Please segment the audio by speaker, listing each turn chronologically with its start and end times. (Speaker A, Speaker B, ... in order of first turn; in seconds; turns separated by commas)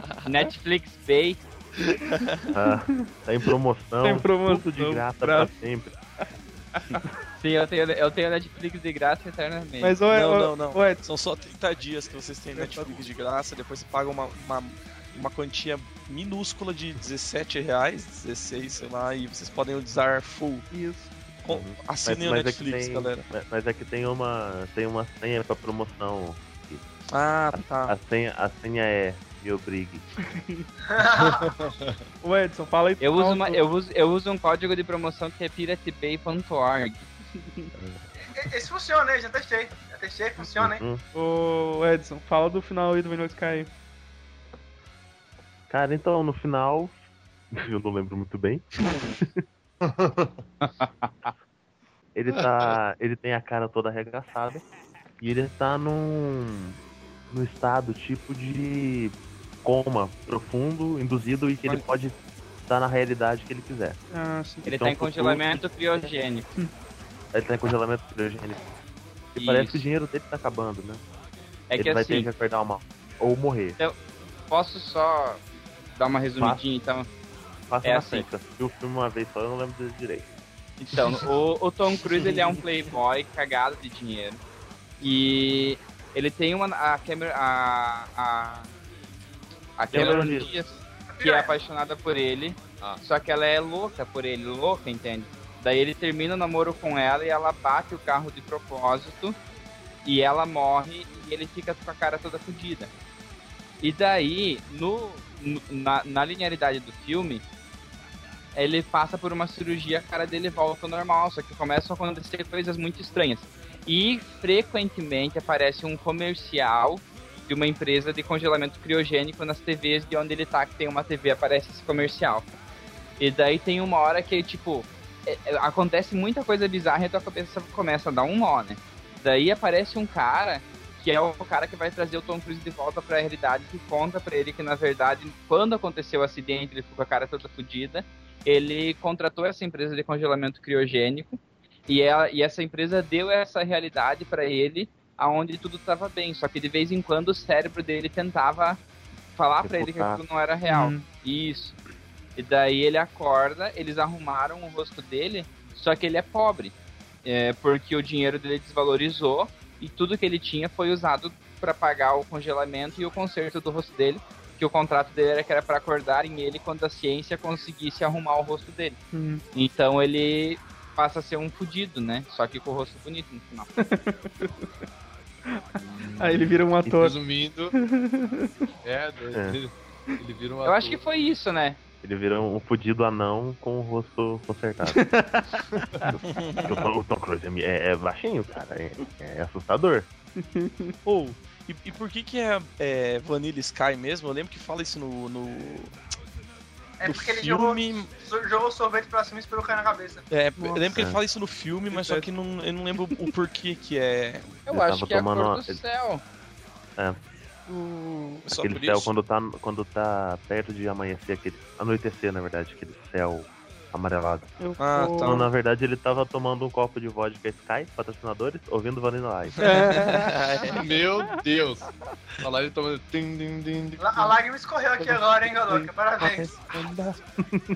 Speaker A: 0.2-1.4, Speaker B: 2.2-2.5, Speaker C: 2.5-6.0, Speaker D: 2.6-3.1, Speaker D: 4.0-5.5, Speaker A: 7.4-10.0, Speaker D: 9.8-11.0, Speaker B: 10.1-20.7, Speaker D: 12.6-13.0, Speaker D: 20.7-21.1, Speaker B: 21.4-23.3, Speaker C: 21.5-26.8, Speaker B: 27.1-27.9, Speaker C: 27.5-30.0, Speaker D: 30.3-30.6, Speaker E: 30.9-31.7, Speaker F: 31.2-32.0, Speaker D: 32.2-33.6, Speaker A: 33.0-37.1, Speaker E: 38.2-40.8, Speaker C: 40.5-41.0, Speaker D: 41.1-43.7, Speaker C: 45.7-46.9, Speaker C: 47.5-48.6, Speaker F: 49.8-50.3, Speaker A: 50.6-51.3, Speaker C: 52.1-54.6, Speaker F: 52.3-52.8, Speaker C: 55.2-56.8, Speaker C: 57.3-64.0, Speaker D: 64.1-64.7, Speaker A: 64.7-66.5, Speaker C: 64.7-65.6, Speaker C: 67.3-68.6, Speaker C: 69.3-71.0, Speaker A: 69.4-69.8, Speaker A: 71.7-72.3, Speaker C: 71.8-73.8, Speaker A: 74.5-75.4, Speaker A: 76.0-77.1, Speaker C: 77.7-80.3, Speaker A: 77.8-78.3, Speaker A: 80.8-84.4, Speaker A: 85.0-88.7, Speaker A: 89.8-99.4, Speaker C: 89.9-90.5, Speaker E: 91.1-91.6, Speaker A: 100.0-102.9, Speaker A: 103.8-107.4, Speaker A: 108.5-122.5, Speaker A: 123.2-148.8, Speaker A: 149.4-151.8, Speaker C: 149.6-150.2, Speaker D: 150.7-151.1, Speaker A: 152.4-156.7, Speaker A: 157.2-169.0, Speaker D: 169.1-169.4, Speaker A: 169.6-173.7, Speaker D: 173.8-174.7, Speaker F: 175.8-177.8, Speaker D: 176.2-177.2, Speaker D: 177.7-178.7, Speaker F: 178.8-181.0, Speaker C: 179.3-179.6, Speaker A: 180.7-181.8, Speaker C: 182.0-185.1, Speaker D: 184.8-186.0, Speaker B: 186.3-186.8, Speaker C: 186.6-190.1, Speaker D: 190.4-190.9, Speaker B: 191.1-195.9, Speaker E: 197.0-200.3, Speaker B: 197.0-198.1, Speaker B: 200.3-204.6, Speaker D: 200.6-201.0, Speaker D: 201.9-202.3, Speaker A: 204.7-206.2, Speaker C: 204.7-205.8, Speaker D: 207.7-208.4, Speaker B: 208.4-209.1, Speaker C: 208.6-214.5, Speaker D: 214.6-215.5, Speaker B: 214.8-215.5, Speaker C: 215.2-219.7, Speaker D: 219.6-221.4, Speaker B: 219.8-220.8, Speaker F: 220.7-221.9, Speaker F: 222.4-224.4, Speaker E: 224.0-226.6, Speaker C: 226.6-227.1